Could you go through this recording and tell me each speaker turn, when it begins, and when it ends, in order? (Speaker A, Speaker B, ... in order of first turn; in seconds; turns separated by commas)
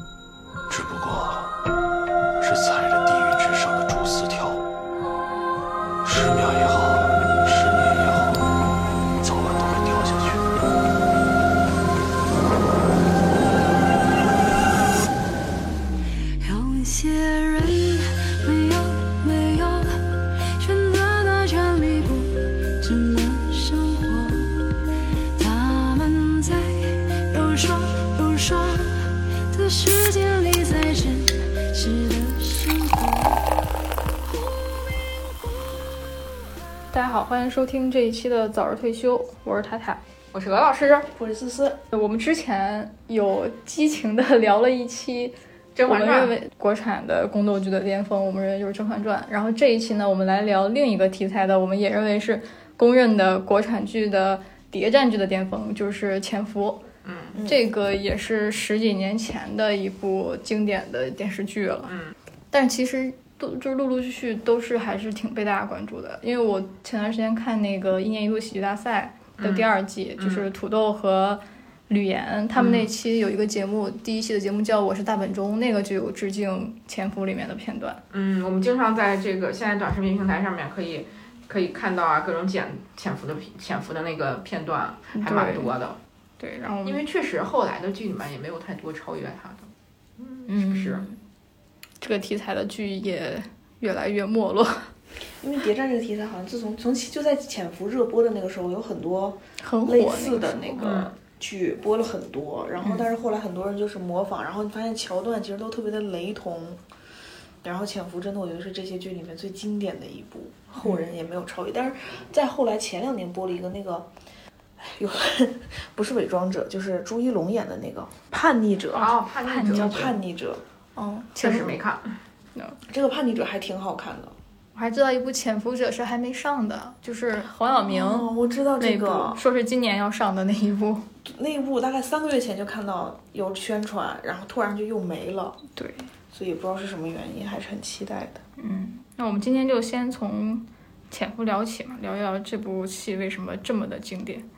Speaker A: 0.7-1.6, Speaker A: 2.4-4.7, Speaker A: 6.0-8.6, Speaker A: 9.2-10.7, Speaker B: 16.4-24.8, Speaker B: 25.4-33.5, Speaker B: 34.3-35.3, Speaker C: 36.9-40.0, Speaker D: 40.3-41.1, Speaker E: 41.1-41.8, Speaker C: 41.9-45.4, Speaker D: 45.8-46.3, Speaker C: 45.9-56.8, Speaker D: 57.0-57.4, Speaker E: 57.3-57.6, Speaker C: 57.4-61.9, Speaker D: 61.9-62.1, Speaker C: 62.5-78.0, Speaker D: 69.4-70.5, Speaker D: 72.6-72.9, Speaker D: 78.1-86.0, Speaker E: 85.2-85.6, Speaker C: 85.2-85.7, Speaker C: 86.4-87.0, Speaker D: 86.8-91.1, Speaker C: 90.5-91.2, Speaker C: 92.0-94.9, Speaker E: 95.4-106.8, Speaker C: 99.6-100.8, Speaker D: 100.8-101.2, Speaker E: 107.6-114.1, Speaker E: 114.8-120.6, Speaker D: 118.9-120.2, Speaker C: 119.5-120.0, Speaker C: 121.0-121.8, Speaker D: 121.4-122.1, Speaker E: 121.5-121.8, Speaker E: 122.9-124.3, Speaker C: 124.8-128.3, Speaker E: 127.7-129.4, Speaker C: 128.8-131.1, Speaker E: 131.2-135.6, Speaker C: 135.8-136.1, Speaker E: 136.3-138.4, Speaker C: 138.6-144.4